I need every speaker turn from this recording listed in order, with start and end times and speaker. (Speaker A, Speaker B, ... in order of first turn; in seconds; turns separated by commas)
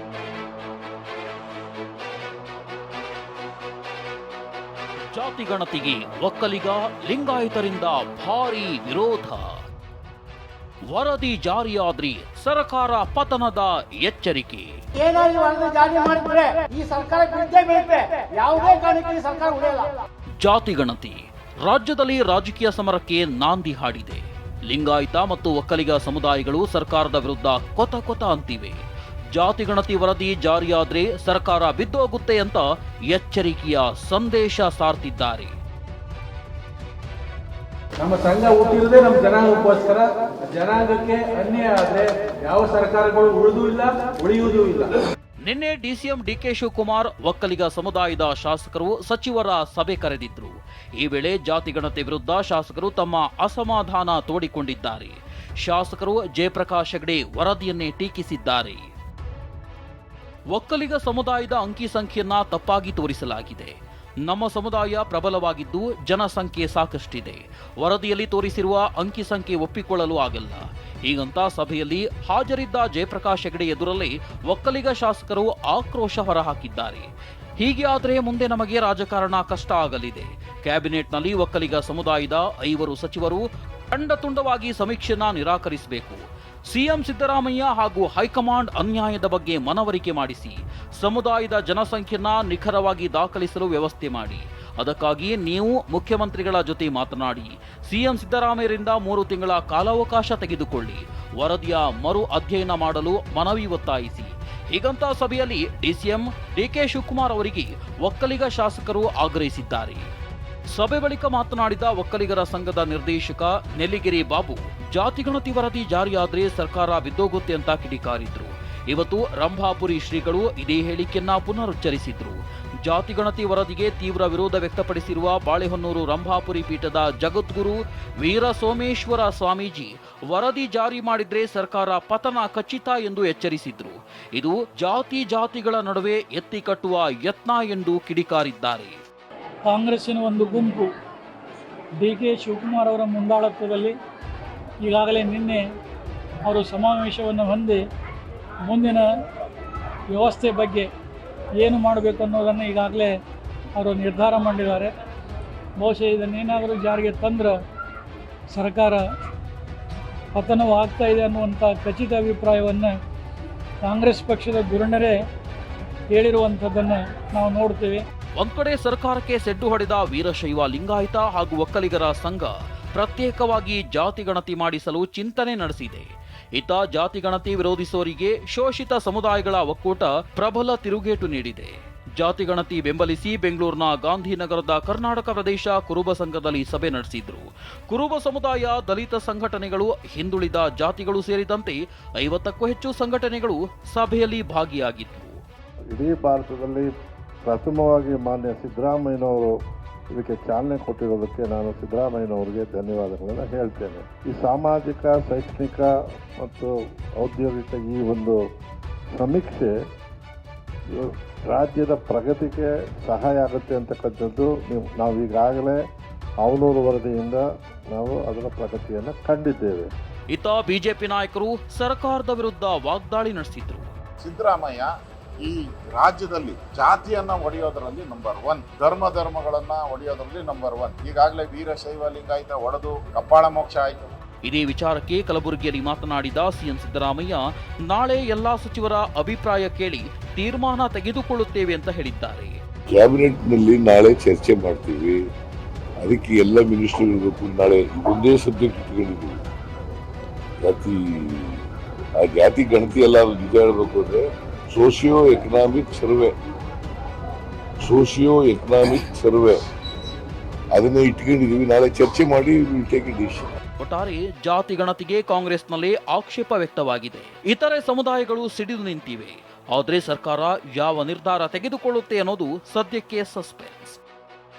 Speaker A: 5.1-9.6, Speaker A: 10.9-14.8, Speaker B: 15.1-19.9, Speaker A: 20.4-28.8, Speaker A: 29.3-35.6, Speaker C: 38.0-44.9, Speaker A: 45.4-58.9, Speaker A: 60.5-110.1, Speaker A: 110.7-139.0, Speaker D: 139.7-140.9, Speaker D: 142.0-143.9, Speaker D: 144.8-145.6, Speaker D: 146.5-147.8, Speaker D: 148.7-149.1, Speaker D: 150.1-150.9, Speaker D: 151.6-153.2, Speaker D: 153.8-154.9, Speaker D: 155.8-157.6, Speaker D: 158.5-159.0, Speaker D: 160.3-162.9, Speaker D: 163.8-165.2, Speaker D: 166.1-168.0, Speaker A: 168.4-195.4, Speaker E: 195.9-196.9, Speaker E: 197.4-199.5, Speaker E: 200.2-205.9, Speaker E: 206.4-208.4, Speaker E: 209.2-209.7, Speaker E: 210.9-215.8, Speaker E: 216.4-217.4, Speaker E: 217.9-219.9, Speaker A: 220.3-223.9, Speaker F: 224.2-234.0, Speaker A: 234.4-242.6, Speaker G: 242.9-245.2, Speaker G: 246.0-249.4, Speaker G: 250.6-251.6, Speaker G: 252.2-256.3, Speaker G: 257.8-259.6, Speaker G: 260.7-263.5, Speaker A: 263.8-274.0